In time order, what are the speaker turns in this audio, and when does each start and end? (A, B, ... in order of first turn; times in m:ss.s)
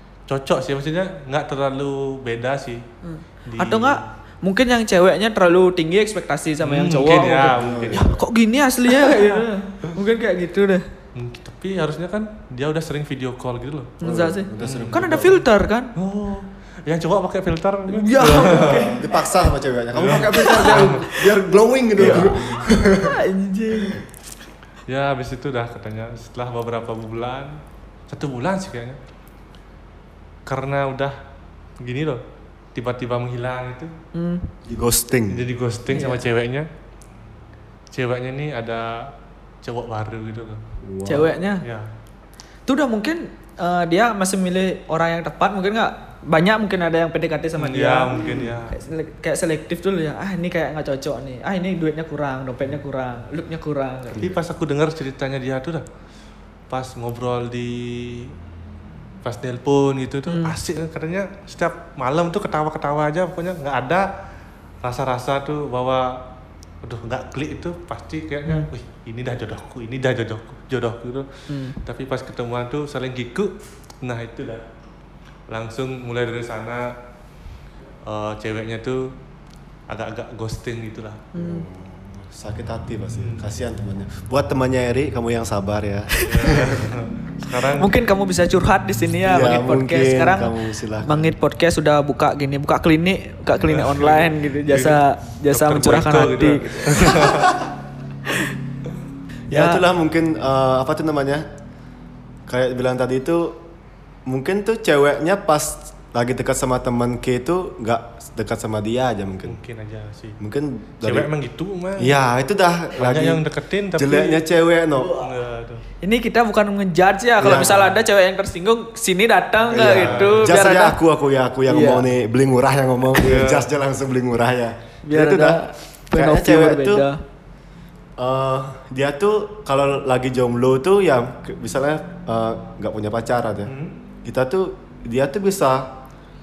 0:00.3-0:02.8 A
0:03.0-0:10.8 B
0:03.4-0:04.0 A
0:06.6-0:08.2 A
0:07.5-0:08.2 C
0:08.9-0:09.4 A
0:11.1-0:13.9 A
0:14.0-0:15.9 B
0:14.0-0:15.4 C
0:14.6-0:15.4 A
0:16.0-0:19.0 A
0:17.9-0:19.2 B
0:18.9-0:23.2 C
0:19.9-0:21.1 A
0:20.3-0:21.2 B
0:22.0-0:22.7 A
0:22.0-0:22.4 B
0:22.9-0:24.0 B
0:24.9-0:29.0 A
0:30.4-0:31.2 A
0:31.8-0:32.2 A
0:32.7-0:33.9 A
0:34.1-0:34.5 B
0:34.6-0:35.5 C
0:35.3-0:36.7 A
0:35.9-0:36.3 B
0:37.9-0:40.6 A
0:40.8-0:41.3 C
0:41.0-0:41.6 B
0:41.6-0:41.9 A
0:42.7-0:54.3 B
0:47.6-0:48.7 A
0:48.2-0:48.5 C
0:54.2-0:55.8 A
0:56.7-0:58.3 A
0:59.2-1:04.1 A
1:00.3-1:00.5 B
1:04.8-1:06.2 A
1:06.8-1:14.6 A
1:11.5-1:11.8 B
1:15.5-1:16.9 A
1:18.0-1:19.1 A
1:19.9-1:21.3 A
1:21.3-1:21.6 B
1:21.4-1:26.9 C
1:23.2-1:23.4 A
1:26.1-1:26.6 B
1:26.2-1:27.9 A
1:27.8-1:37.5 B
1:29.2-1:31.3 C
1:33.6-1:37.6 A
1:39.5-1:41.4 C
1:39.5-1:39.8 B
1:42.5-1:43.6 C
1:44.2-1:49.6 C
1:49.4-1:50.4 A
1:50.4-1:51.3 C
1:51.0-1:52.2 A
1:52.0-1:53.4 C
1:53.0-1:54.4 A
1:53.9-1:55.2 C
1:55.0-1:55.3 B
1:55.1-1:55.8 A
1:56.0-2:01.0 B
1:57.4-1:57.9 C
1:59.7-2:05.6 C
2:00.0-2:00.5 A
2:01.7-2:02.0 B
2:03.2-2:03.7 A
2:05.0-2:07.2 B
2:06.1-2:07.1 C
2:08.2-2:13.7 C
2:13.7-2:14.0 A
2:14.2-2:15.9 C